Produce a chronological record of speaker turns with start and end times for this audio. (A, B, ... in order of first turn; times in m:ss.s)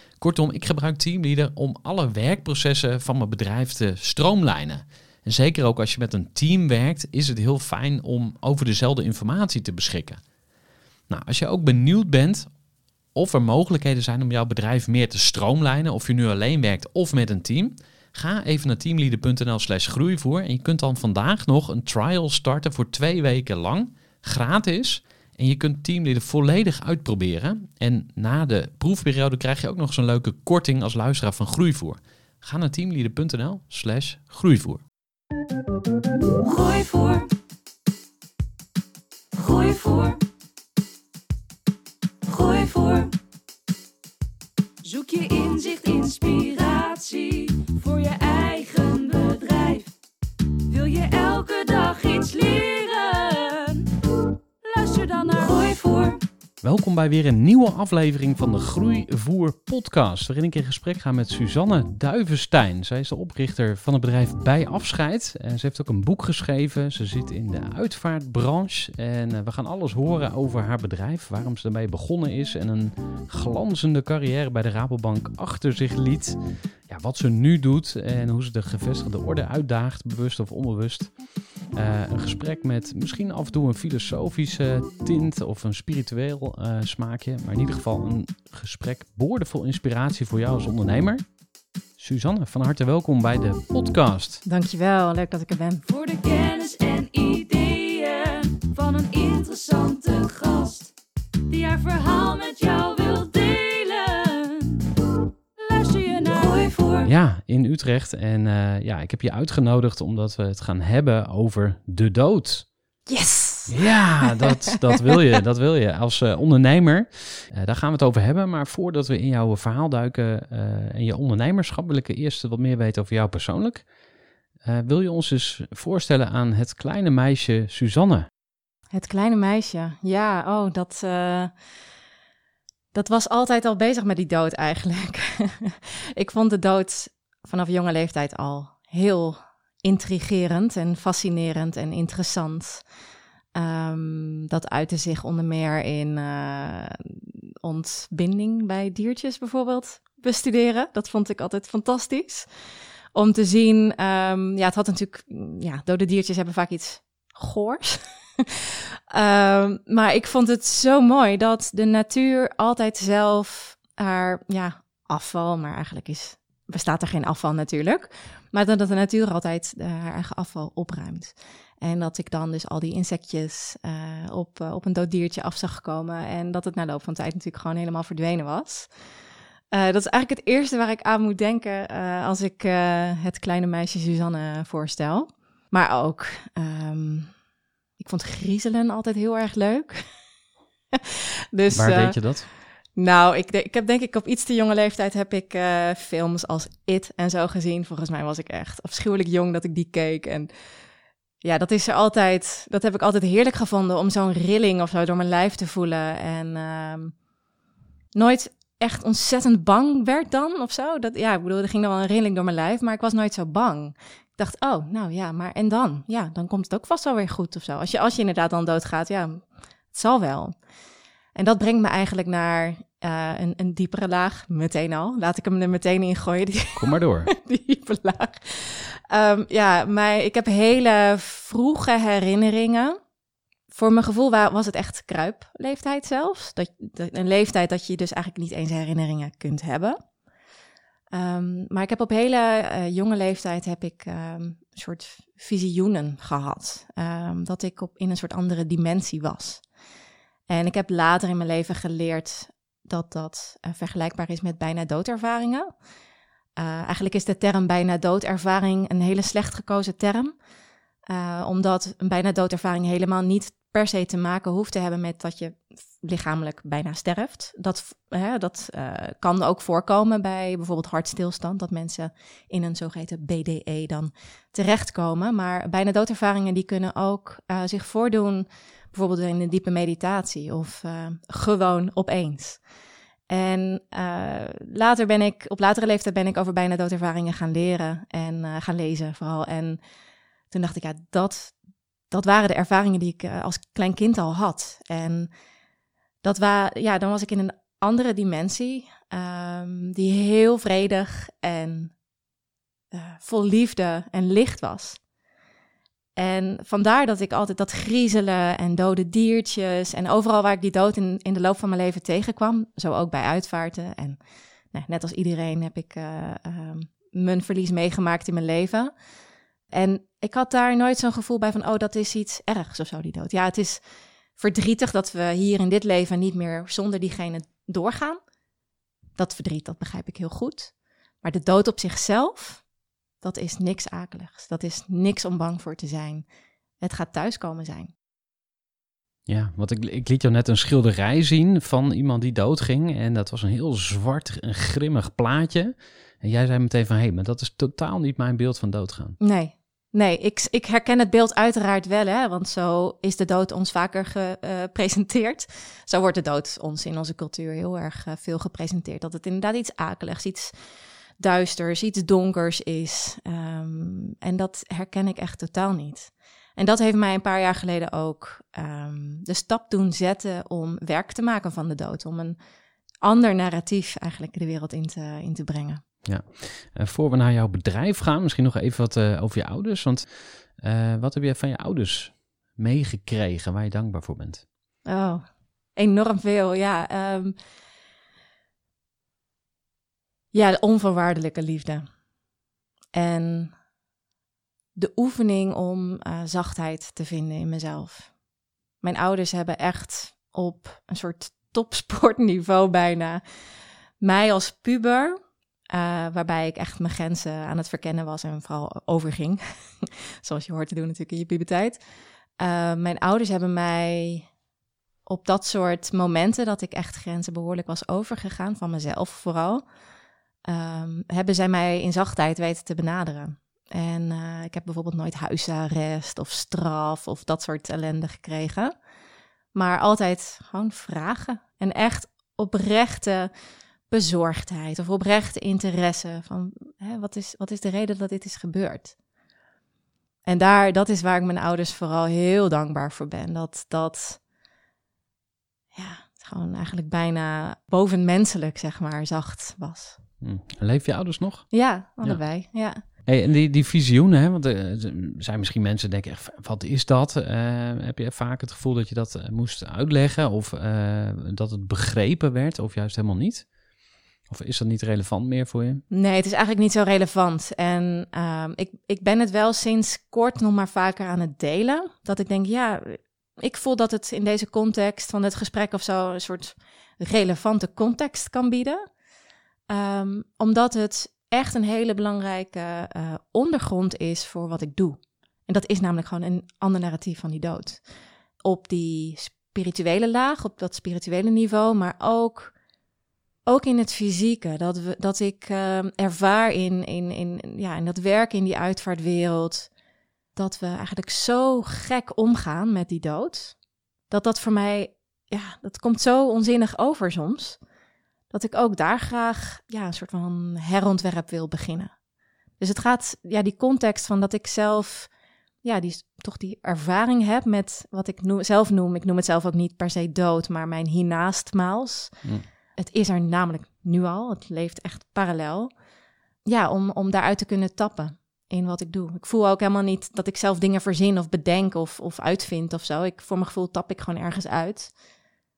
0:00.2-0:10.2 A
0:11.1-0:12.5 A
0:13.2-0:34.8 A
0:36.4-0:37.3 B
0:39.4-0:40.2 B
0:42.3-0:43.2 B
0:44.8-0:49.9 B
0:50.7-0:56.2 B
0:56.6-1:16.4 A
1:16.9-1:21.1 A
1:21.7-1:31.2 A
1:32.0-1:34.4 A
1:34.4-1:35.8 C
1:35.9-1:40.9 B
1:41.5-1:45.0 B
1:45.6-1:47.1 B
1:47.0-1:52.7 A
1:53.1-1:55.2 C
1:53.7-2:03.9 A
2:04.6-2:08.3 A
2:08.9-2:11.5 C
2:12.9-2:22.8 C
2:23.5-2:32.5 C
2:33.1-2:58.9 C
2:59.7-3:07.3 C
3:08.0-3:10.0 C
3:10.9-3:12.2 C
3:11.7-3:12.5 A
3:13.0-3:20.5 C
3:21.4-3:27.1 C
3:28.2-3:40.6 C
3:41.4-3:53.0 C
3:46.8-3:47.3 A
3:53.7-4:00.0 C
4:01.1-4:09.6 C
4:10.5-4:15.7 C
4:16.6-4:20.3 C
4:21.1-4:42.6 C
4:43.3-4:49.8 C
4:50.5-4:51.5 C
4:52.1-4:55.3 C
4:56.2-5:01.9 C
5:02.9-5:05.0 C
5:06.2-5:14.2 C
5:14.7-5:18.9 C
5:19.7-5:23.8 C
5:24.4-5:28.2 C
5:29.2-5:32.6 C
5:33.2-5:36.2 C
5:36.8-5:37.9 C
5:39.3-5:49.2 A
5:49.2-6:00.5 C
6:01.2-6:12.4 C
6:13.0-6:15.8 C
6:16.0-6:24.4 A
6:24.8-6:27.4 C
6:30.3-6:31.9 C
6:32.9-6:33.5 C
6:34.8-6:38.1 C
6:38.8-6:43.2 C
6:44.0-6:45.2 C
6:45.7-6:51.8 C
6:52.4-6:54.3 C
6:55.1-6:59.6 C
7:00.4-7:08.7 C
7:09.5-7:13.3 C
7:13.9-7:19.0 C
7:20.3-7:24.2 C
7:25.7-7:30.0 C
7:30.2-7:31.5 A
7:31.5-7:32.8 C
7:33.0-7:43.5 A
7:44.3-7:45.8 A
7:45.9-7:58.8 C
7:59.7-8:07.8 C
8:08.4-8:12.5 C
8:13.5-8:19.7 C
8:20.4-8:23.6 C
8:24.1-8:27.6 C
8:28.3-8:31.9 C
8:32.6-8:35.1 C
8:35.6-8:42.2 C
8:42.8-8:45.7 C
8:46.5-8:54.9 C